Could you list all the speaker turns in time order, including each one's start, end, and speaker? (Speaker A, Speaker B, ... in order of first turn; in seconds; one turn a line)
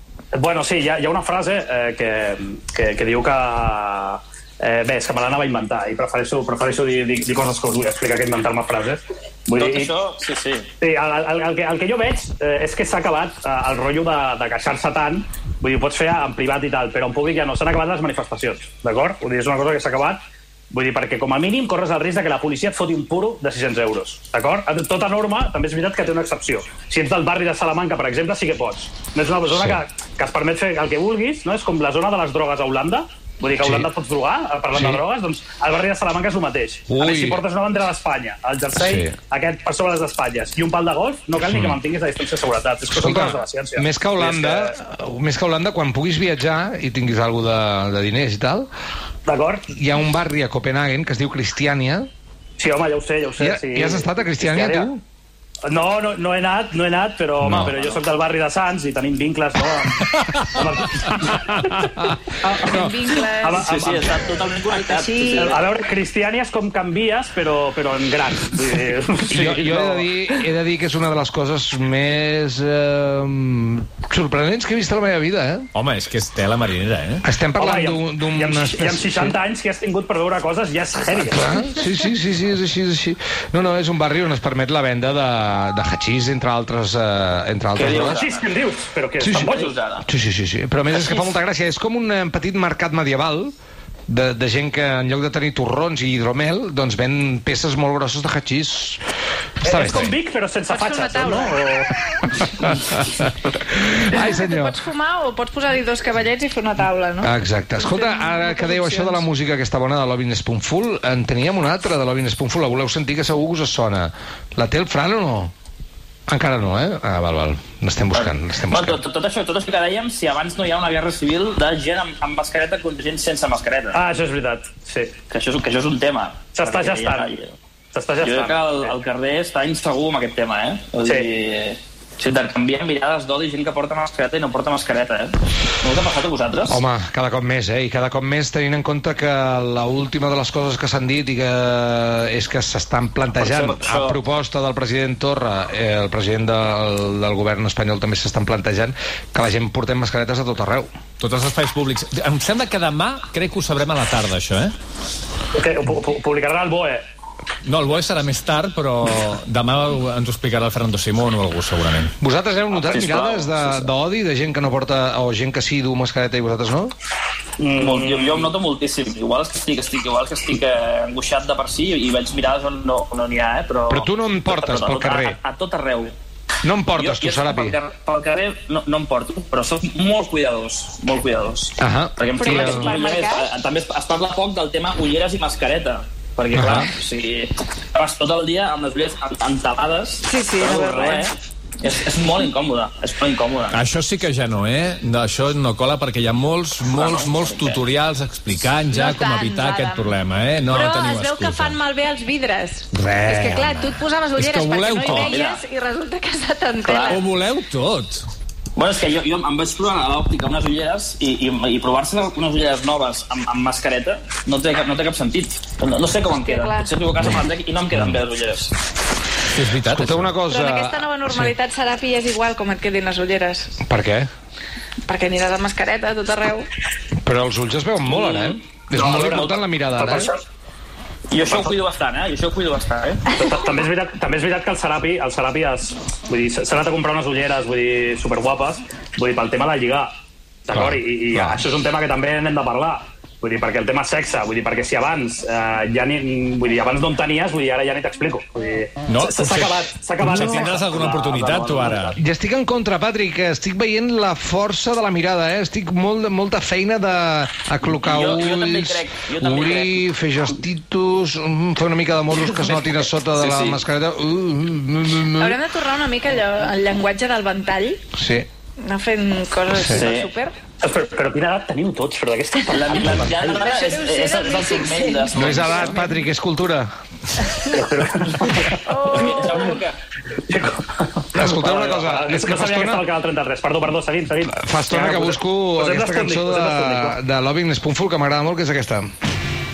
Speaker A: 0.3-9.9
Speaker B: 9.6-10.7
Speaker A: 10.8-20.2
Speaker A: 20.7-44.8
Speaker C: 29.5-29.8
Speaker C: 33.6-33.9
Speaker C: 34.7-35.0
Speaker C: 36.9-37.4
Speaker C: 38.8-39.1
Speaker C: 41.5-41.8
Speaker C: 42.9-48.7
Speaker A: 49.2-49.6
Speaker C: 49.7-52.1
Speaker A: 52.6-54.9
Speaker C: 53.4-55.0
Speaker A: 55.6-61.5
Speaker C: 57.4-57.7
Speaker D: 60.4-60.7
Speaker C: 61.4-62.9
Speaker A: 62.4-64.2
Speaker E: 62.8-63.6
Speaker B: 63.5-65.6
Speaker E: 64.7-65.6
Speaker A: 65.3-70.1
Speaker C: 69.3-75.7
Speaker D: 75.7-77.2
Speaker C: 77.2-79.3
Speaker A: 77.6-81.6
Speaker C: 81.3-88.2
Speaker B: 87.7-88.4
Speaker A: 88.0-89.7
Speaker C: 89.2-93.5
Speaker B: 89.3-90.0
Speaker B: 90.9-91.3
Speaker C: 94.1-99.0
Speaker C: 99.6-100.1
Speaker A: 99.6-101.9
Speaker E: 100.7-101.6
Speaker C: 102.3-104.7
Speaker E: 104.1-109.3
Speaker C: 107.2-115.5
Speaker C: 116.3-119.0
Speaker B: 118.1-124.0
Speaker A: 123.9-125.1
Speaker B: 125.3-127.5
Speaker A: 126.5-127.3
Speaker A: 127.9-128.9
Speaker B: 128.2-136.8
Speaker C: 136.7-150.9
Speaker B: 143.3-144.2
Speaker D: 151.2-154.7
Speaker A: 155.5-157.0
Speaker D: 157.6-162.1
Speaker C: 162.2-166.9
Speaker B: 162.7-163.9
Speaker A: 167.6-168.5
Speaker B: 167.8-176.1
Speaker C: 173.9-175.4
Speaker C: 176.6-177.8
Speaker B: 176.9-193.8
Speaker C: 181.8-182.9
Speaker E: 182.3-183.5
Speaker C: 186.5-186.9
Speaker E: 190.2-191.3
Speaker D: 193.7-201.8
Speaker B: 196.9-197.8
Speaker E: 198.9-200.1
Speaker E: 200.7-207.2
Speaker D: 202.9-205.3
Speaker B: 205.2-205.6
Speaker B: 206.8-207.2
Speaker D: 207.1-208.3
Speaker B: 208.8-218.7
Speaker E: 216.3-217.0
Speaker D: 219.5-220.3
Speaker C: 219.9-221.5
Speaker E: 220.4-223.8
Speaker C: 223.8-224.3
Speaker E: 225.1-226.7
Speaker C: 227.2-230.3
Speaker B: 228.1-228.6
Speaker A: 228.9-230.4
Speaker B: 231.3-233.3
Speaker A: 231.4-231.7
Speaker A: 233.3-240.1
Speaker A: 240.7-252.2
Speaker C: 240.7-241.6
Speaker D: 249.1-252.2
Speaker C: 252.2-265.6
Speaker B: 257.9-260.0
Speaker B: 263.4-263.8
Speaker E: 265.4-268.0
Speaker C: 268.1-268.5
Speaker E: 268.8-270.5
Speaker C: 269.7-270.1
Speaker B: 269.9-270.3
Speaker A: 270.8-273.7
Speaker B: 272.7-276.1
Speaker E: 273.6-275.9
Speaker C: 275.3-276.9
Speaker A: 277.7-279.8
Speaker E: 278.8-279.8
Speaker B: 279.1-280.0
Speaker A: 280.5-287.2
Speaker C: 281.3-283.1
Speaker C: 284.5-289.1